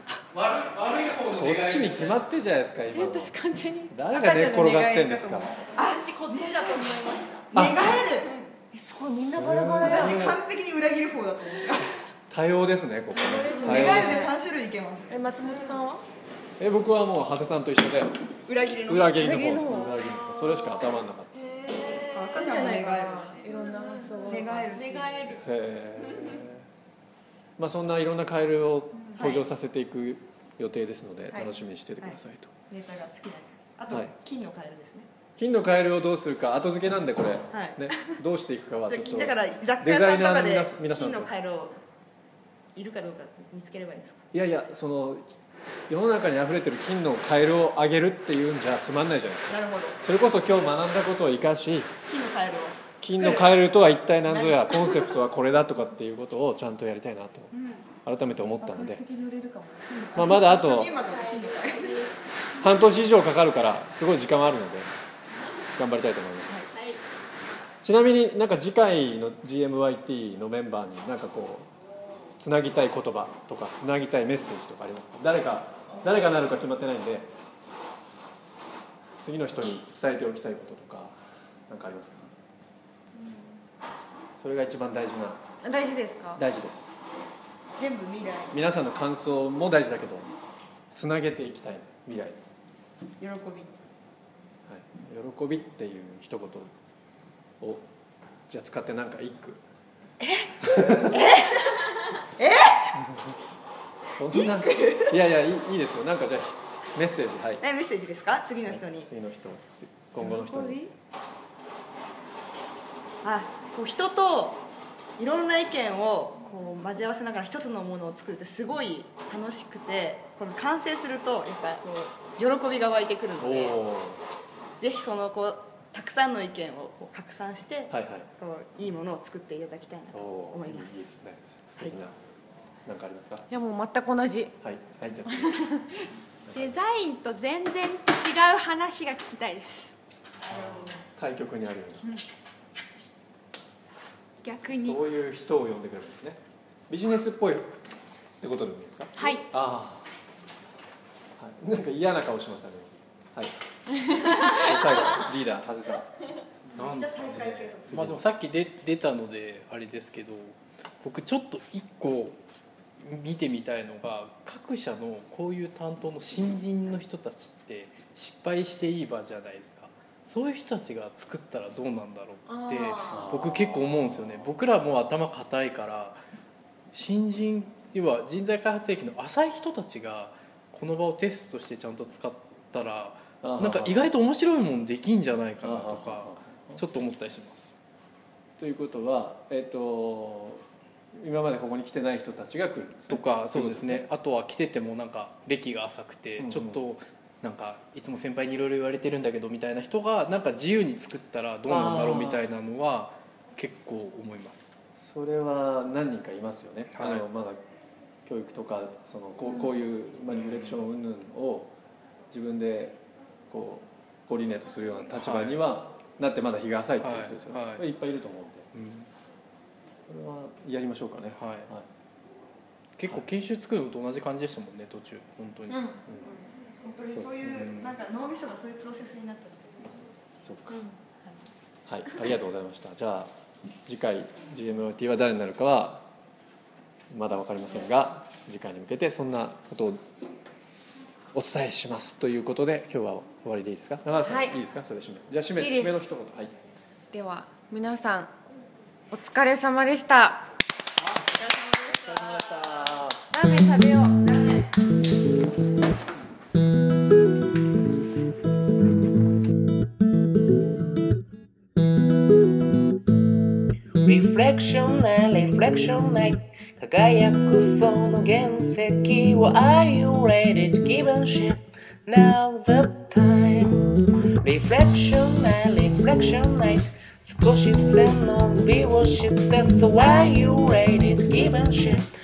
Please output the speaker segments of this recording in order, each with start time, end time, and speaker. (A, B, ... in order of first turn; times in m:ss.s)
0:00.3-0:02.2 A
0:01.3-0:05.6 B
0:02.9-0:03.9 C
0:04.1-0:05.6 D
0:05.7-0:07.5 C
0:05.8-0:07.0 E
0:07.5-0:08.3 E
0:07.5-0:07.9 B
0:08.2-0:08.5 C
0:08.7-0:10.2 D
0:09.2-0:10.4 B
0:09.8-0:12.0 E
0:12.3-0:14.3 B
0:13.1-0:14.3 D
0:13.6-0:15.2 E
0:15.1-0:16.0 D
0:15.4-0:15.7 C
0:16.6-0:18.2 B
0:18.4-0:19.5 E
0:18.9-0:21.3 B
0:19.2-0:20.0 D
0:20.0-0:22.6 C
0:21.8-0:23.5 E
0:22.3-0:24.7 D
0:23.5-0:25.4 C
0:24.3-0:25.4 E
0:25.4-0:26.6 B
0:26.1-0:26.4 C
0:27.6-0:32.5 B
0:29.2-0:29.5 E
0:31.3-0:31.6 D
0:32.0-0:35.1 E
0:35.4-0:41.3 B
0:37.5-0:38.1 E
0:38.9-0:41.8 E
0:42.7-0:44.2 E
0:44.3-0:51.9 B
0:49.5-0:50.0 E
0:52.0-0:53.6 E
0:53.0-0:57.5 B
0:54.2-0:55.2 E
0:58.0-0:59.0 B
0:58.6-1:00.3 D
0:59.9-1:02.1 E
1:00.1-1:01.0 B
1:01.0-1:02.1 C
1:02.6-1:04.9 B
1:05.8-1:06.7 B
1:06.7-1:07.0 C
1:07.8-1:11.7 B
1:12.4-1:17.3 B
1:19.2-1:21.2 B
1:21.7-1:22.3 B
1:24.4-1:25.4 B
1:25.6-1:26.4 D
1:26.4-1:26.9 B
1:27.8-1:28.6 E
1:28.5-1:30.3 B
1:30.9-1:32.4 B
1:33.2-1:33.8 E
1:34.6-1:36.7 B
1:37.6-1:37.8 B
1:38.5-1:39.6 B
1:40.2-1:41.8 E
1:40.7-1:41.2 B
1:42.4-1:42.9 E
1:44.1-1:47.6 B
1:44.3-1:45.2 E
1:47.6-1:49.1 E
1:48.7-1:50.9 B
1:50.2-1:50.8 E
1:53.2-1:54.6 E
1:55.2-2:03.8 E
2:03.4-2:04.2 B
2:04.8-2:11.1 E
2:07.9-2:08.3 B
2:10.1-2:12.1 B
2:12.8-2:13.5 B
2:13.5-2:14.5 D
2:14.6-2:15.7 B
2:16.5-2:16.7 B
2:16.5-2:20.0 C
2:20.6-2:22.0 B
2:24.4-2:25.0 C
2:24.6-2:27.7 B
2:28.4-2:30.1 B
2:29.2-2:29.4 C
2:31.4-2:36.1 B
2:36.7-2:42.4 A
2:36.7-2:38.1 E
2:37.8-2:38.2 B
2:43.0-2:56.2 A
2:52.5-2:53.3 D
2:53.1-2:54.5 B
2:56.9-3:07.7 A
3:03.4-3:04.0 B
3:05.6-3:06.8 B
3:08.6-3:10.6 B
3:11.1-3:14.1 B
3:13.1-3:24.7 A
3:16.4-3:16.8 B
3:21.7-3:22.4 B
3:25.0-3:27.6 B
3:26.9-3:27.2 A
3:28.2-3:31.7 B
3:30.3-3:30.8 A
3:32.3-3:38.7 B
3:35.1-3:35.6 A
3:37.0-3:37.8 A
3:38.7-3:39.1 A
3:40.0-3:41.9 B
3:41.3-3:41.7 A
3:43.0-3:46.0 A
3:45.7-3:46.0 D
3:46.1-3:46.3 B
3:46.2-3:50.0 E
3:47.1-3:47.6 B
3:47.4-3:48.0 A
3:50.4-3:50.8 B
3:51.2-3:51.5 E
3:51.9-3:53.3 B
3:53.9-3:56.0 B
3:57.1-4:00.0 B
4:01.3-4:06.6 B
4:04.2-4:04.6 D
4:05.6-4:06.0 D
4:07.1-4:08.3 D
4:09.1-4:10.4 D
4:11.3-4:12.9 C
4:11.9-4:13.2 B
4:13.3-4:14.3 D
4:24.0-4:33.7 F
4:34.4-4:42.0 F